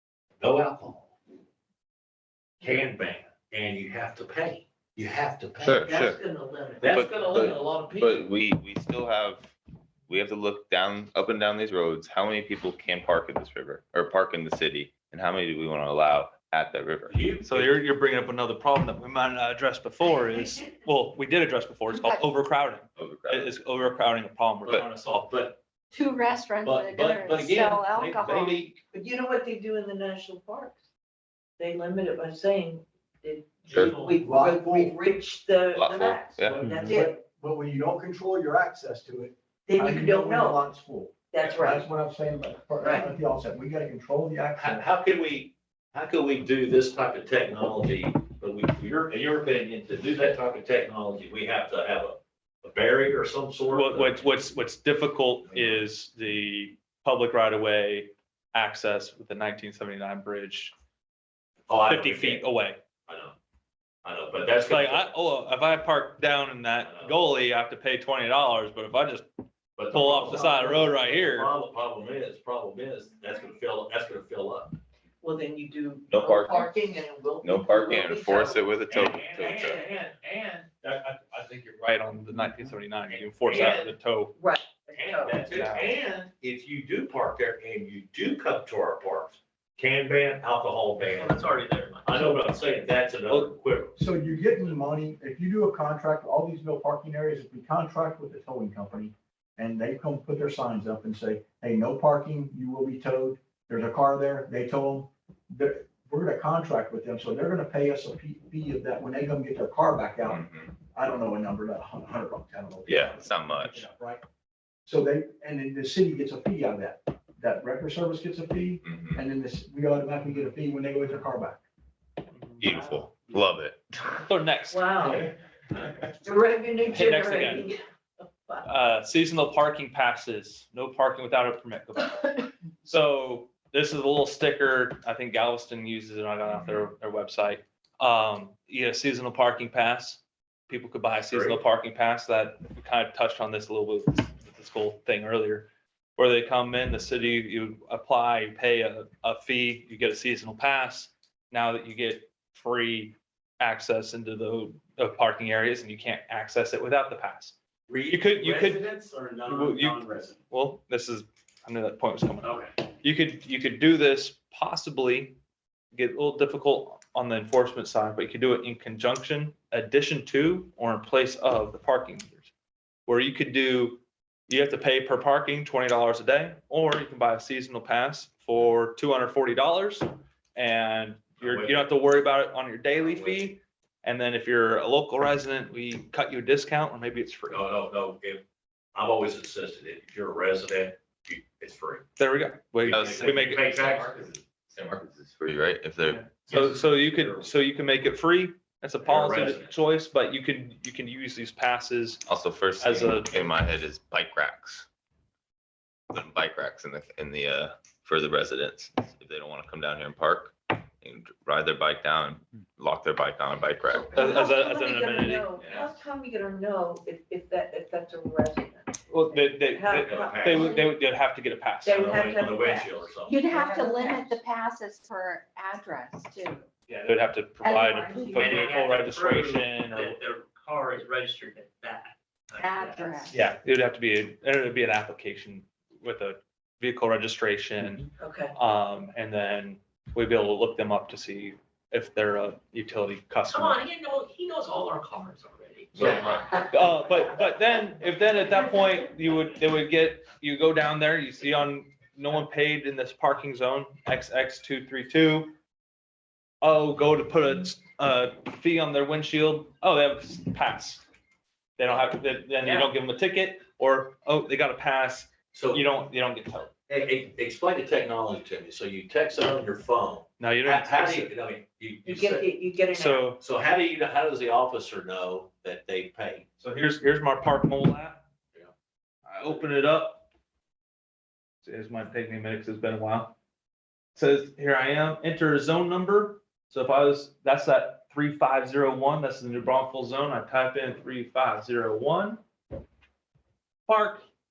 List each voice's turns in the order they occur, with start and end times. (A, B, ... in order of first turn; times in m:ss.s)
0:00.4-0:01.2 A
0:02.6-0:05.9 A
0:05.6-0:06.2 B
0:05.9-0:06.9 C
0:06.8-0:08.2 A
0:06.9-0:09.5 B
0:10.1-0:17.2 B
0:17.1-0:17.7 A
0:17.4-0:25.3 D
0:23.0-0:23.6 B
0:25.3-0:25.6 A
0:25.9-0:28.5 E
0:26.6-0:28.8 A
0:28.9-0:30.8 C
0:31.6-0:37.2 C
0:33.7-0:34.2 A
0:33.7-0:34.0 B
0:34.2-0:35.0 F
0:35.7-0:36.7 B
0:36.6-0:36.9 E
0:36.8-0:44.8 F
0:39.7-0:40.6 C
0:41.3-0:41.8 C
0:42.8-0:43.1 C
0:44.6-0:54.3 A
0:53.7-1:00.7 D
0:55.5-0:55.8 A
1:01.7-1:02.4 A
1:01.8-1:02.8 D
1:03.1-1:03.4 A
1:04.0-1:05.1 A
1:04.7-1:09.3 D
1:06.8-1:07.2 A
1:09.8-1:14.8 A
1:09.9-1:11.5 D
1:15.2-1:18.6 C
1:16.1-1:16.8 B
1:17.4-1:19.8 B
1:18.9-1:21.7 A
1:21.6-1:24.4 D
1:23.1-1:23.9 A
1:24.4-1:25.4 C
1:24.9-1:31.4 A
1:25.5-1:26.0 D
1:31.0-1:32.1 G
1:32.0-1:34.0 A
1:32.2-1:32.5 D
1:33.3-1:33.5 D
1:34.0-1:50.4 F
1:50.2-1:50.7 B
1:50.9-1:54.2 F
1:52.9-1:53.8 B
1:54.9-2:01.6 F
1:58.8-1:59.2 B
2:02.3-2:02.7 D
2:02.6-2:04.2 B
2:04.2-2:05.2 D
2:04.7-2:05.3 C
2:06.2-2:07.8 C
2:06.9-2:07.7 D
2:08.6-2:37.6 D
2:16.4-2:16.9 B
2:21.3-2:21.6 A
2:37.9-2:40.4 A
2:38.1-2:38.9 D
2:39.4-2:45.4 D
2:42.4-2:42.7 A
2:45.9-2:52.5 D
2:53.1-3:07.7 D
3:01.4-3:01.8 A
3:03.0-3:03.4 A
3:07.5-3:08.4 A
3:09.0-3:12.0 A
3:12.2-3:13.7 D
3:12.8-3:16.2 B
3:12.9-3:14.4 A
3:16.2-3:22.2 D
3:16.3-3:17.5 A
3:19.0-3:19.7 A
3:22.2-3:24.9 B
3:22.8-3:23.5 D
3:26.1-3:34.2 B
3:33.9-3:40.8 C
3:34.1-3:35.5 D
3:39.1-3:42.1 D
3:40.0-3:40.8 A
3:41.8-3:44.4 C
3:41.9-3:43.4 A
3:43.3-3:46.6 E
3:46.9-3:50.2 D
3:47.7-3:48.4 E
3:47.9-3:48.3 C
3:48.3-3:53.1 G
3:52.6-3:53.3 E
3:53.3-4:03.8 D
3:58.2-3:58.6 C
4:03.5-4:06.0 G
4:05.9-4:06.4 A
4:06.7-4:15.5 D
4:16.6-4:21.0 D
4:21.8-4:26.7 D
4:22.6-4:22.9 C
4:25.5-4:25.8 A
4:26.9-4:32.5 A
4:30.4-4:31.3 D
4:32.1-4:33.3 C
4:32.9-4:33.4 D
4:33.4-4:36.5 A
4:36.6-4:38.2 D
4:39.3-4:40.2 D
4:41.6-4:43.4 D
4:44.2-4:52.4 D
4:53.9-4:54.2 D